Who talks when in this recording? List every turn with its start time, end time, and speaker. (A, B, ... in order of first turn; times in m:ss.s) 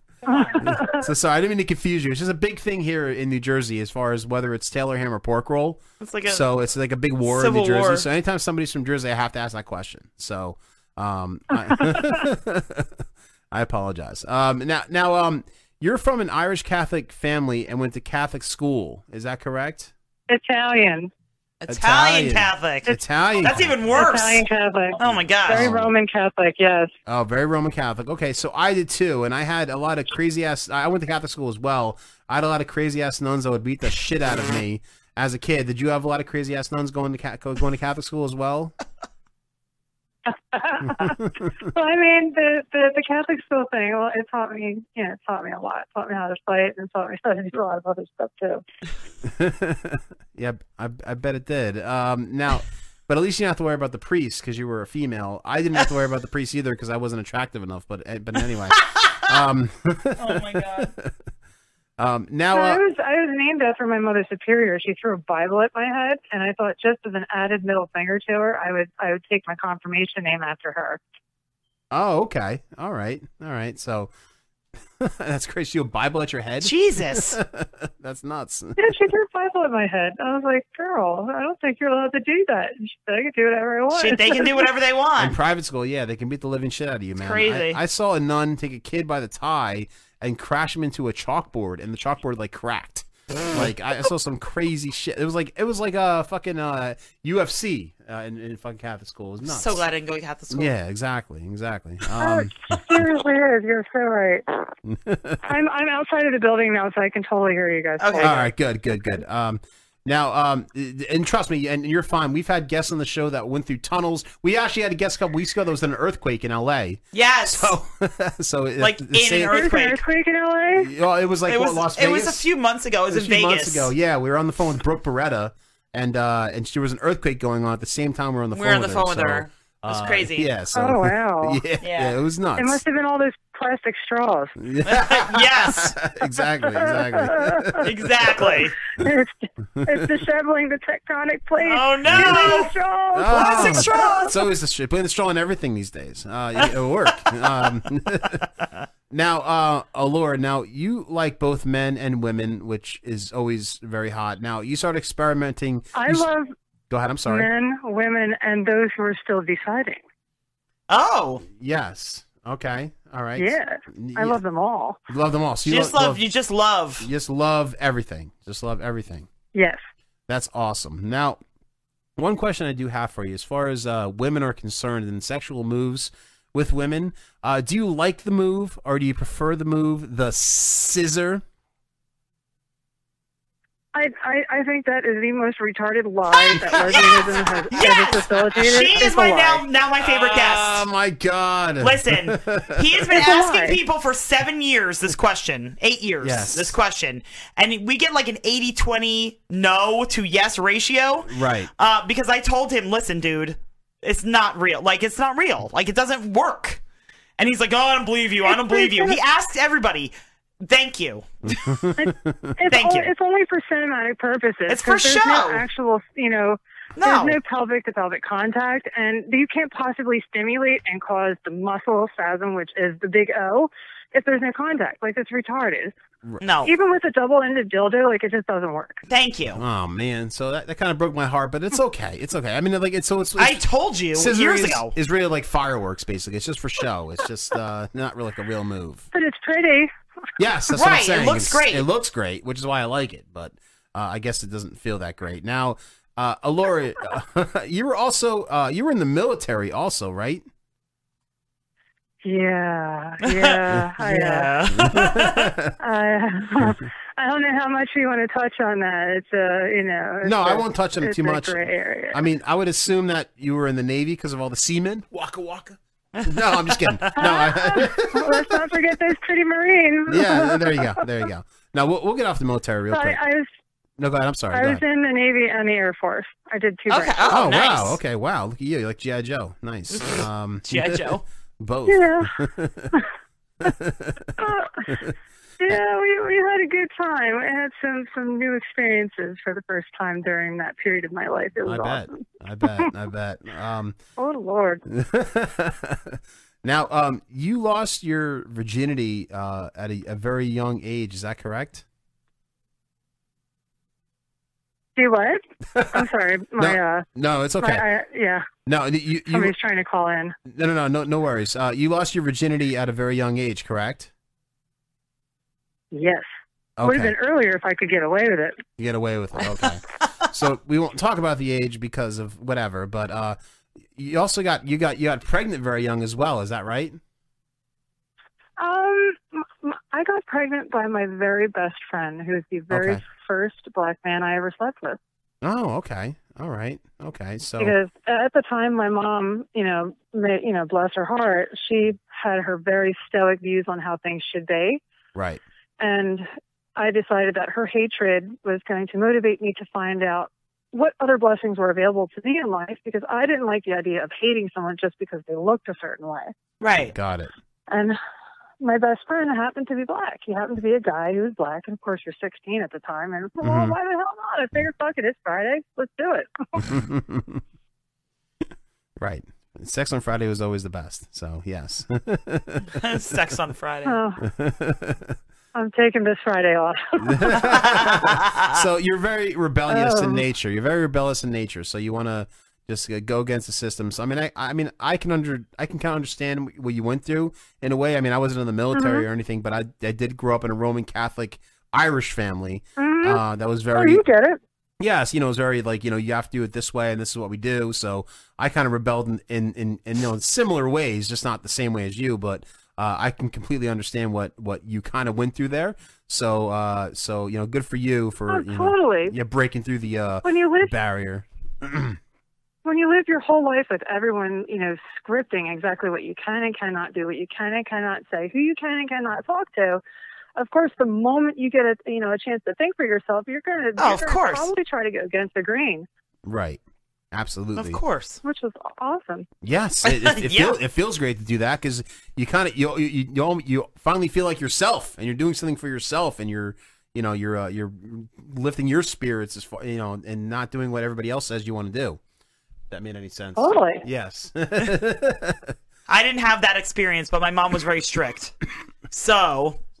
0:00.2-0:01.0 A
0:00.6-0:12.9 B
0:06.0-0:06.4 C
0:07.2-0:08.0 C
0:11.5-0:12.2 A
0:13.5-0:19.9 B
0:20.3-0:21.1 A
0:21.6-0:24.4 C
0:21.7-0:24.0 B
0:23.9-0:26.9 A
0:25.0-0:25.7 C
0:25.0-0:25.9 B
0:27.0-0:38.7 B
0:40.3-0:48.6 A
0:41.0-0:41.2 B
0:49.2-1:01.2 B
1:00.2-1:00.9 C
1:02.0-1:02.8 B
1:02.5-1:11.0 A
1:11.9-1:14.1 B
1:15.0-1:18.9 B
1:16.6-1:17.4 C
1:18.8-1:24.7 A
1:23.9-1:25.4 C
1:25.2-1:39.8 B
1:27.2-1:27.8 C
1:39.5-1:40.7 C
1:40.5-1:43.2 B
1:42.1-1:44.4 A
1:44.8-1:45.4 B
1:45.5-1:48.4 A
1:48.0-1:48.5 C
1:48.2-1:59.7 B
1:57.1-1:57.7 C
1:58.8-2:00.0 C
1:59.5-2:00.9 A
2:00.8-2:02.4 B
2:01.5-2:03.9 C
2:03.1-2:12.8 B
2:08.5-2:10.5 C
2:10.7-2:11.6 A
2:11.8-2:12.1 C
2:12.6-2:14.5 A
2:14.6-2:18.4 B
2:14.8-2:15.9 C
2:16.6-2:17.8 A
2:17.8-2:18.7 C
2:18.4-2:24.3 A
2:19.9-2:20.1 B
2:21.6-2:22.7 C
2:22.0-2:22.6 B
2:23.1-2:28.4 B
2:23.3-2:24.3 C
2:29.1-2:36.3 B
2:35.9-2:36.5 A
2:36.9-2:37.5 B
2:37.2-2:40.0 A
2:40.9-2:41.4 C
2:41.4-2:44.4 B
2:43.4-2:45.0 A
2:45.1-2:46.2 B
2:45.6-2:47.1 C
2:47.0-2:49.3 B
2:49.5-2:49.8 A
2:50.3-2:51.4 B
2:52.2-3:01.4 B
3:03.9-3:09.6 A
3:06.3-3:10.8 C
3:06.6-3:07.9 B
3:10.0-3:13.1 B
3:11.8-3:26.8 C
3:13.1-3:13.8 A
3:16.2-3:16.8 B
3:21.2-3:21.7 B
3:27.4-3:31.5 C
3:28.4-3:29.2 A
3:31.5-3:32.5 B
3:32.0-3:45.9 A
3:32.7-3:33.1 C
3:34.7-3:35.6 C
3:37.0-3:37.4 C
3:46.4-3:46.7 C
3:46.6-3:49.0 A
3:49.1-3:49.6 C
3:49.5-3:59.0 B
3:53.4-3:54.9 C
3:59.1-3:59.9 A
4:00.4-4:10.4 B
4:00.7-4:01.8 C
4:12.2-4:14.5 A
4:13.2-4:15.5 C
4:14.7-4:15.8 B
4:15.8-4:22.2 A
4:20.2-4:28.6 B
4:26.2-4:27.2 C
4:27.2-4:31.0 A
4:30.1-4:33.2 B
4:32.9-4:33.5 A
4:34.0-4:34.8 B
4:34.5-4:37.2 A
4:36.9-4:38.0 C
4:37.3-4:42.9 B
4:39.9-4:41.2 C
4:41.9-4:42.3 A
4:43.6-4:45.1 B
4:44.4-4:44.9 A
4:45.6-4:52.2 A
4:51.6-4:54.0 B
4:54.2-4:54.8 A
4:54.9-5:01.8 B
5:05.0-5:05.4 A
5:05.7-5:06.0 B
5:05.9-5:07.0 A
5:06.6-5:07.8 B
5:07.6-5:08.4 A
5:08.6-5:09.5 B
5:09.3-5:10.4 A
5:10.4-5:14.1 B
5:15.9-5:16.3 A
5:16.8-5:17.2 B
5:16.8-5:18.6 A
5:18.8-5:23.4 B
5:23.9-5:27.0 B
5:28.6-5:35.0 A
5:32.7-5:33.0 B
5:35.4-5:37.7 B
5:37.6-5:44.8 A
5:45.1-5:45.4 B
5:45.8-5:56.3 A
5:56.6-5:56.9 C
5:56.8-5:57.3 B
5:57.7-5:58.0 A
5:58.6-6:06.6 A
6:03.4-6:03.8 B
6:06.6-6:07.4 B
6:09.0-6:12.7 B
6:12.8-6:14.0 C
6:13.8-6:14.2 A
6:14.2-6:15.1 B
6:15.5-6:17.4 A
6:17.0-6:34.0 B
6:17.4-6:18.6 C
6:19.7-6:20.2 A
6:28.7-6:29.0 A
6:32.8-6:33.2 A
6:33.7-6:34.4 A
6:34.8-6:52.0 B
6:48.3-6:49.1 A
6:50.2-6:50.7 A
6:52.6-6:59.8 A
7:00.4-7:05.9 A
7:03.8-7:04.5 C
7:06.2-7:06.6 B
7:07.1-7:07.8 B
7:07.6-7:08.2 C
7:08.2-7:09.3 A
7:09.4-7:22.0 B
7:09.8-7:10.6 C
7:22.7-7:25.5 B
7:23.4-7:23.8 A
7:25.9-7:28.3 C
7:28.9-7:29.6 C